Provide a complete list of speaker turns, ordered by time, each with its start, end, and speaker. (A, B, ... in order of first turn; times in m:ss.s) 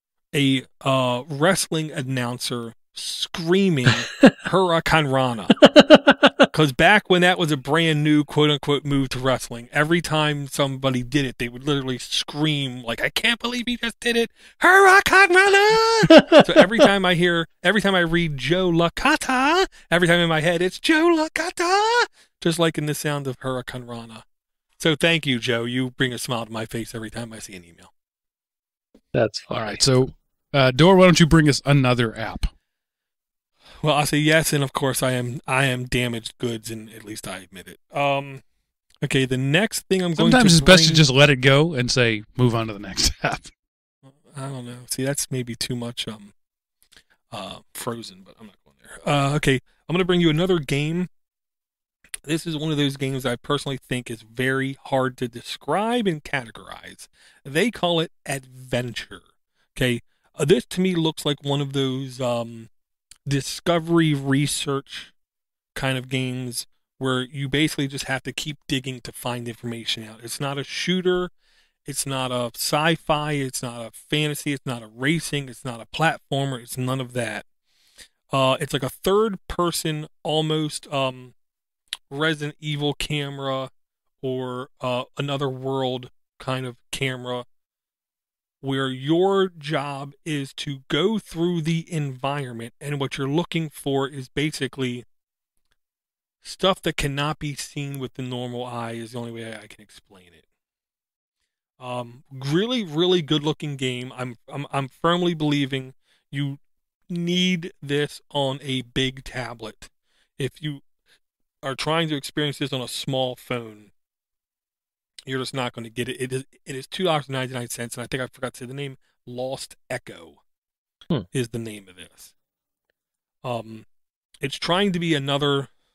0:00.3-0:05.6 A
0:05.7-0:06.4 B
0:06.5-0:24.2 A
0:16.1-0:16.7 B
0:24.8-0:27.9 A
0:29.1-0:29.8 B
0:29.5-0:32.5 C
0:33.8-0:38.4 A
0:39.0-0:41.0 A
0:40.2-0:43.5 C
0:44.1-0:46.3 A
0:47.3-0:51.1 A
0:52.3-0:59.2 A
0:59.8-1:02.7 A
1:03.3-1:05.1 A
1:05.8-1:11.3 A
1:11.9-1:17.4 A
1:18.3-1:21.3 A
1:22.1-1:23.7 A
1:24.2-1:27.5 A
1:28.6-1:35.1 A
1:36.4-1:40.4 A
1:41.8-1:50.8 A
1:51.6-1:53.9 A
1:55.3-2:00.4 A
2:01.3-2:02.3 A
2:03.4-2:03.9 A
2:04.4-2:05.7 A